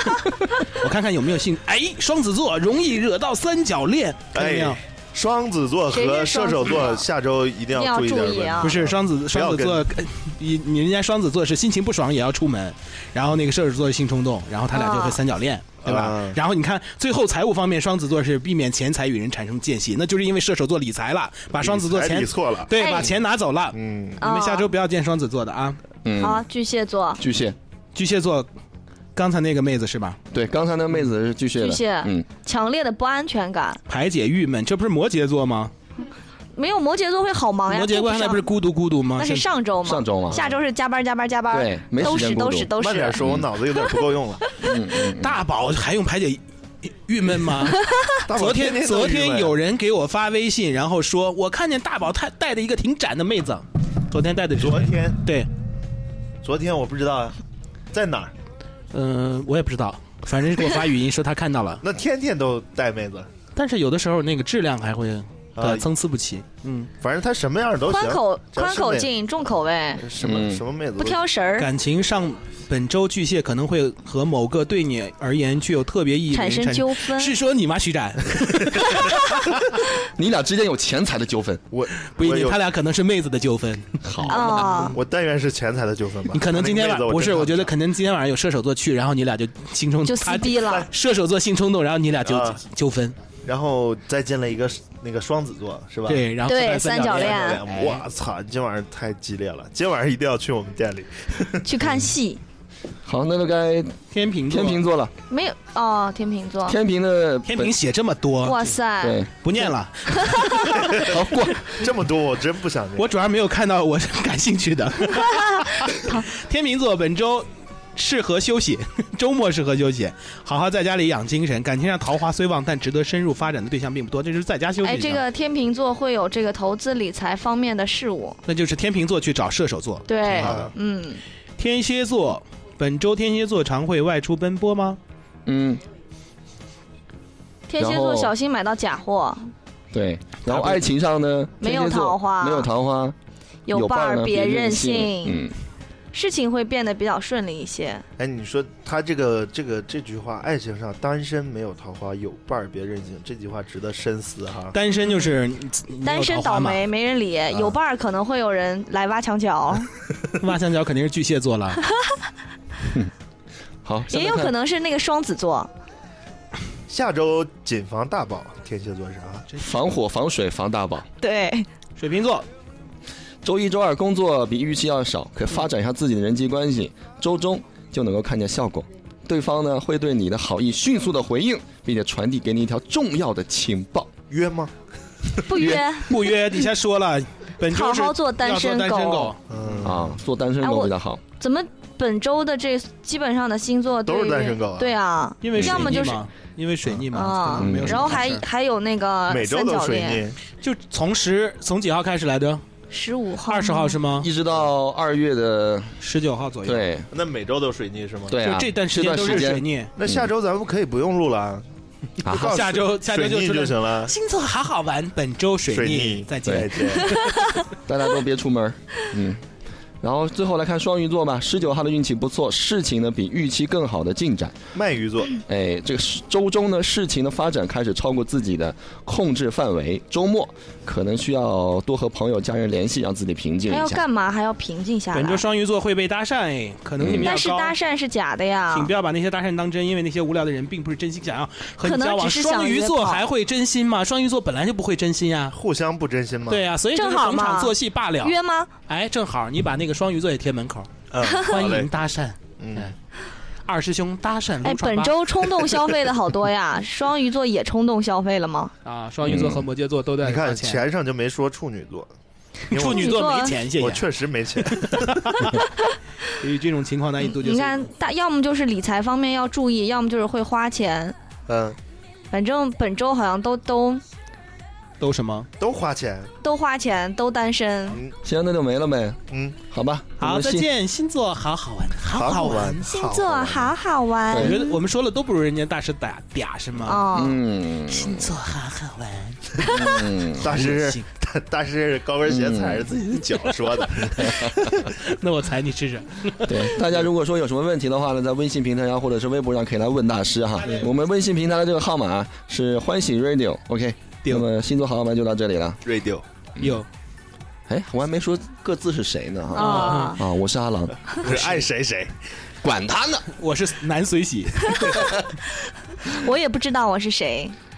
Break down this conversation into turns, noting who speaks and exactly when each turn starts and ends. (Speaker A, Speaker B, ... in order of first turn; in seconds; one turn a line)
Speaker A: 0.7-4.8
Speaker B: 4.3-9.8
Speaker C: 5.9-7.0
Speaker C: 7.7-8.7
Speaker A: 8.6-25.8
Speaker C: 14.7-15.2
Speaker B: 15.8-16.4
Speaker B: 21.6-23.1
Speaker C: 22.7-23.1
Speaker B: 23.7-24.2
Speaker C: 24.2-24.7
Speaker D: 26.0-26.4
Speaker C: 26.2-27.2
Speaker D: 27.2-27.6
Speaker A: 27.9-28.5
Speaker A: 29.1-30.2
Speaker D: 30.3-32.2
Speaker C: 31.6-33.8
Speaker A: 33.9-35.7
Speaker C: 36.6-38.5
Speaker A: 37.7-39.5
Speaker C: 39.2-43.2
Speaker D: 39.8-40.4
Speaker B: 40.3-40.5
Speaker D: 41.5-43.5
Speaker B: 42.7-44.5
Speaker D: 44.6-45.4
Speaker A: 45.1-47.8
Speaker B: 48.2-49.5
Speaker A: 48.3-55.5
Speaker B: 54.6-55.2
Speaker B: 56.4-57.4
Speaker B: 57.9-58.3
Speaker A: 58.9-61.8
Speaker B: 61.8-63.3
Speaker A: 63.5-66.9
Speaker B: 65.6-65.8
Speaker B: 67.0-69.1
Speaker C: 67.9-70.0
Speaker B: 70.0-71.2
Speaker D: 70.2-70.6
Speaker C: 71.0-71.7
Speaker A: 71.6-79.2
Speaker C: 76.3-77.3
Speaker D: 80.2-81.6
Speaker B: 81.7-82.6
Speaker A: 82.1-84.9
Speaker D: 84.0-84.6
Speaker C: 84.3-85.0
Speaker B: 84.9-87.7
Speaker A: 86.3-93.2
Speaker C: 90.0-90.9
Speaker B: 92.2-92.6
Speaker B: 93.4-96.3
Speaker A: 96.1-98.0
Speaker C: 96.4-97.6
Speaker B: 97.1-101.9
Speaker C: 101.6-102.4
Speaker D: 103.0-105.1
Speaker A: 104.1-104.8
Speaker C: 105.3-106.8
Speaker D: 106.6-107.8
Speaker A: 107.5-108.7
Speaker C: 108.4-109.2
Speaker D: 109.0-109.3
Speaker A: 109.4-111.0
Speaker C: 110.2-110.5
Speaker D: 111.0-111.6
Speaker B: 111.7-113.1
Speaker A: 113.0-125.2
Speaker C: 124.8-128.4
Speaker A: 128.5-130.5
Speaker C: 130.1-131.2
Speaker B: 130.3-130.7
Speaker A: 131.6-135.0
Speaker D: 135.4-135.8
Speaker C: 137.7-139.5
Speaker D: 137.8-138.3
Speaker D: 139.9-143.2
Speaker A: 140.4-140.9
Speaker C: 141.6-142.7
Speaker C: 143.7-145.4
Speaker D: 143.7-145.5
Speaker C: 146.1-148.0
Speaker B: 148.2-154.8
Speaker A: 154.7-156.8
Speaker C: 156.0-159.9
Speaker B: 157.5-157.8
Speaker A: 160.4-161.8
Speaker D: 163.8-164.5
Speaker C: 164.1-165.7
Speaker B: 166.9-169.4
Speaker D: 169.6-171.1
Speaker C: 171.2-171.7
Speaker A: 172.0-172.4
Speaker D: 173.4-184.1
Speaker B: 184.3-184.7
Speaker C: 185.4-186.6
Speaker D: 185.5-185.8
Speaker A: 186.0-189.4
Speaker C: 187.7-189.3
Speaker B: 189.5-190.2
Speaker D: 189.8-191.2
Speaker C: 190.6-196.2
Speaker B: 194.1-194.9
Speaker A: 195.4-198.4
Speaker D: 195.6-196.0
Speaker C: 197.1-200.2
Speaker D: 197.6-198.3
Speaker B: 199.3-200.4
Speaker A: 200.6-202.6
Speaker C: 202.9-204.0
Speaker A: 203.5-204.3
Speaker D: 204.2-205.9
Speaker A: 206.0-206.8
Speaker D: 206.6-207.1
Speaker B: 207.1-208.4
Speaker D: 208.3-210.3
Speaker A: 208.4-209.9
Speaker B: 210.0-211.6
Speaker D: 212.2-212.7
Speaker B: 212.2-214.1
Speaker A: 212.3-217.3
Speaker B: 215.7-217.2
Speaker D: 217.9-219.4
Speaker D: 220.0-224.6
Speaker B: 224.7-225.4
Speaker D: 225.4-234.0
Speaker C: 233.7-235.4
Speaker A: 235.1-237.8
Speaker D: 237.0-237.3
Speaker C: 237.2-238.9
Speaker A: 238.7-245.5
Speaker C: 241.8-243.2
Speaker B: 245.5-246.6
Speaker A: 246.5-248.3
Speaker C: 246.9-248.7
Speaker A: 248.9-250.9
Speaker B: 251.1-251.9
Speaker A: 251.4-252.9
Speaker B: 252.6-252.9
Speaker A: 253.6-255.7
Speaker C: 254.6-258.7
Speaker A: 258.8-260.8
Speaker D: 259.2-259.7
Speaker B: 260.2-262.1
Speaker B: 262.7-263.2
Speaker A: 262.7-265.5
Speaker C: 262.9-263.6
Speaker B: 263.8-265.4
Speaker A: 266.4-267.9
Speaker C: 267.2-271.1
Speaker B: 271.5-271.8
Speaker C: 272.3-274.0
Speaker A: 275.0-275.5
Speaker B: 275.6-276.3
Speaker C: 276.4-278.0
Speaker D: 278.2-280.7
Speaker B: 279.3-279.6
Speaker A: 280.2-282.9
Speaker B: 282.1-283.7
Speaker C: 282.3-284.6
Speaker D: 284.3-284.6
Speaker A: 284.4-287.1
Speaker C: 286.8-287.4
Speaker D: 287.1-288.3
Speaker A: 287.9-289.6
Speaker D: 289.6-290.6
Speaker A: 290.4-291.0
Speaker B: 290.4-294.5
Speaker D: 292.2-292.9
Speaker D: 294.2-294.7
Speaker A: 294.4-297.0
Speaker D: 296.4-305.8
Speaker A: 300.6-300.9
Speaker B: 305.8-306.2
Speaker A: 306.6-306.9
Speaker D: 307.7-311.6
Speaker C: 309.5-310.2
Speaker A: 309.6-310.1
Speaker B: 311.2-312.1
Speaker D: 312.6-313.3
Speaker A: 313.4-315.0
Speaker C: 316.0-317.6